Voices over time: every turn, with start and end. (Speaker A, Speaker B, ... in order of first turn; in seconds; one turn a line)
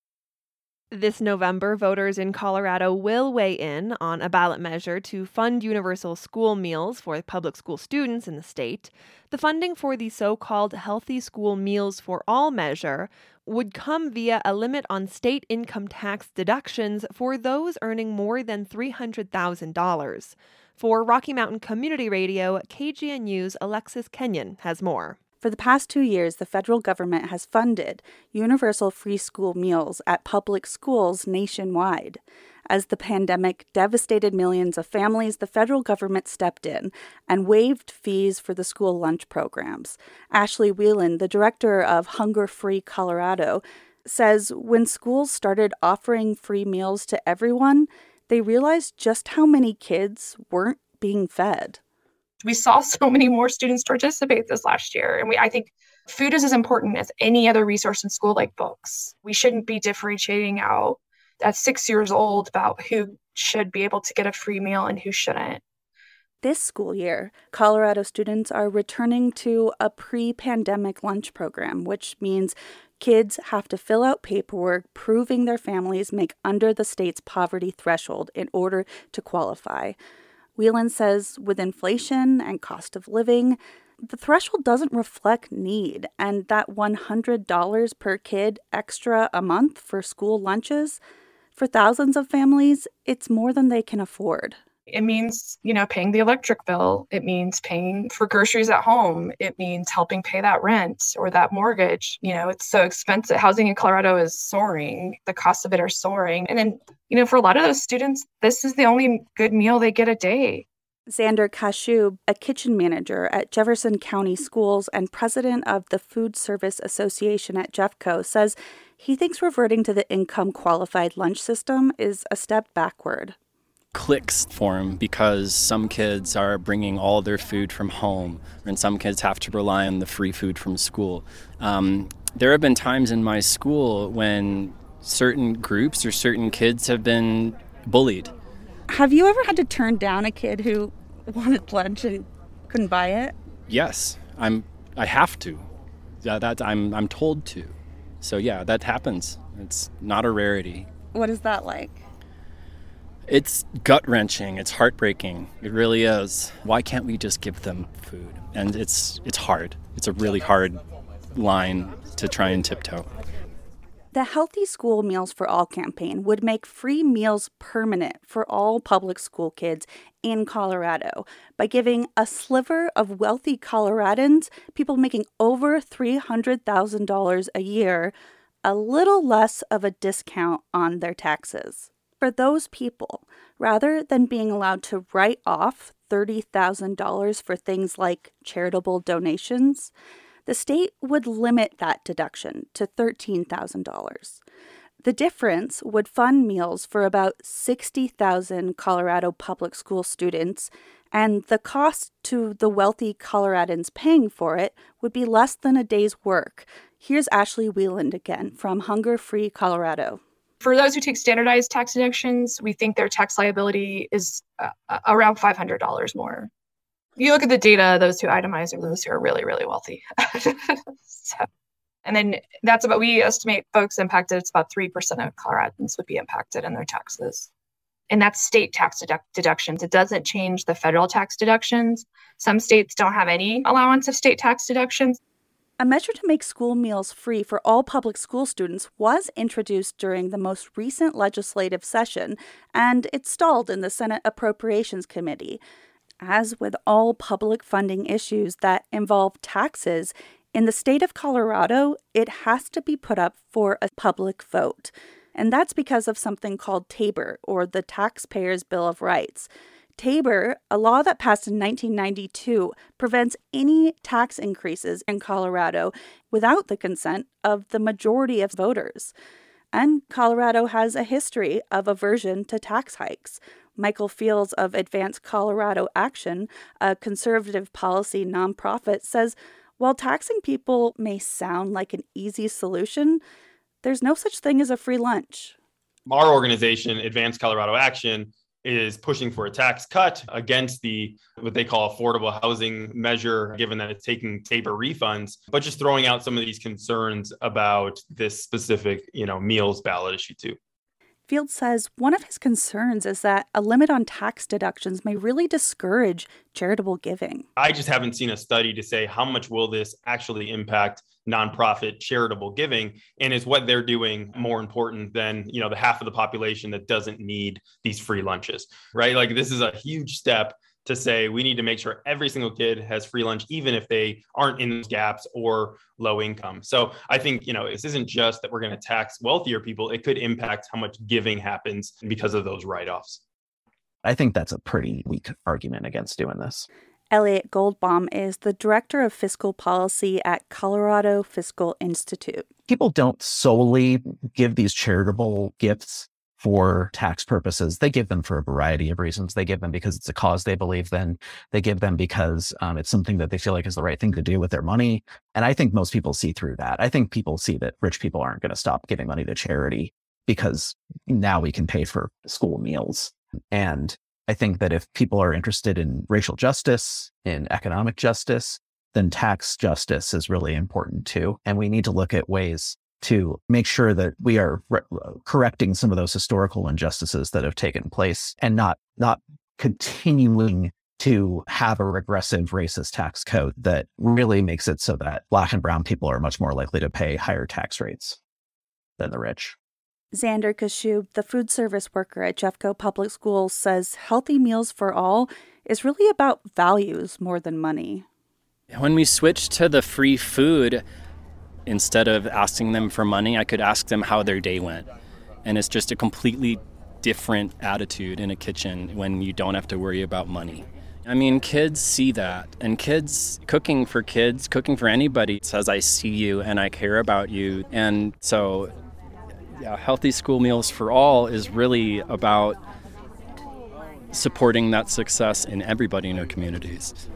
Speaker A: 0.9-25.2
Speaker B: 25.4-51.8
Speaker C: 52.4-65.6
Speaker B: 66.4-80.0
Speaker B: 80.6-91.0
Speaker B: 91.6-94.6
Speaker C: 94.9-110.7
Speaker B: 111.1-123.3
Speaker D: 123.9-138.3
Speaker B: 138.9-143.3
Speaker D: 143.7-145.7
Speaker D: 146.2-150.9
Speaker B: 151.1-152.0
Speaker D: 153.3-160.8
Speaker D: 161.3-163.1
Speaker B: 164.1-189.9
Speaker B: 190.5-194.4
Speaker B: 195.0-210.2
Speaker C: 210.6-216.5
Speaker C: 217.2-221.5
Speaker C: 222.1-227.5
Speaker C: 228.1-235.2
Speaker B: 235.8-245.6
Speaker B: 246.2-269.1
Speaker B: 269.7-283.2
Speaker B: 283.8-285.6
Speaker E: 286.1-300.6
Speaker B: 301.3-307.5
Speaker E: 307.6-333.2
Speaker F: 334.0-336.7
Speaker B: 337.1-342.5
Speaker F: 342.7-388.2
Speaker F: 389.0-389.6
Speaker B: 390.1-398.1
Speaker D: 398.7-400.8
Speaker D: 401.7-404.9
Speaker D: 405.4-418.7
Speaker D: 419.6-422.6
Speaker D: 424.1-427.0